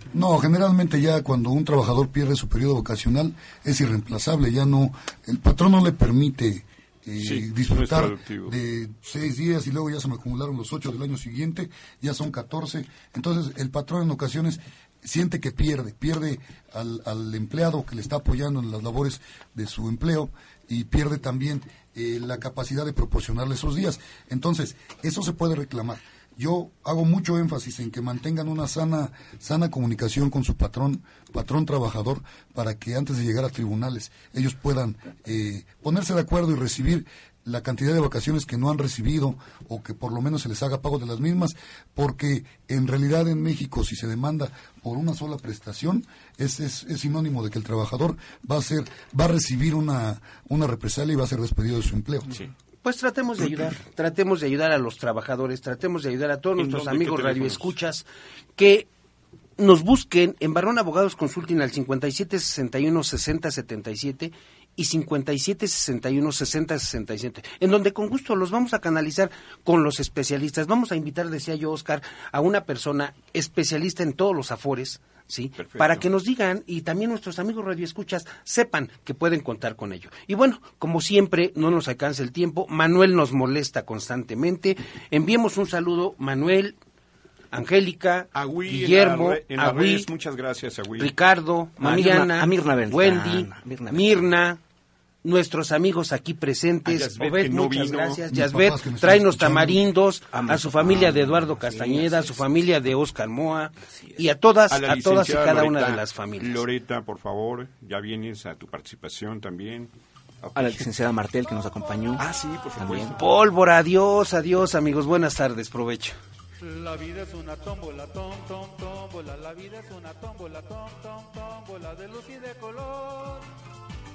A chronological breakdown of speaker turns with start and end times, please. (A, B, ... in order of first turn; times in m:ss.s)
0:00.1-0:52.4 A
0:07.2-0:08.6 B
0:52.8-0:58.0 C
0:56.6-0:57.7 B
0:58.6-0:58.9 C
0:59.6-1:26.8 C
1:15.6-1:16.0 B
1:27.5-1:30.1 C
1:28.3-1:31.1 B
1:31.0-1:34.6 C
1:31.8-1:34.3 D
1:35.2-1:46.6 C
1:36.8-1:38.2 B
1:38.3-1:39.8 A
1:40.3-1:42.4 D
1:44.0-1:44.2 D
1:44.7-1:50.8 B
1:50.5-1:52.2 D
1:52.2-1:53.2 B
1:52.8-1:53.1 D
1:53.2-1:56.2 C
1:56.6-2:03.4 E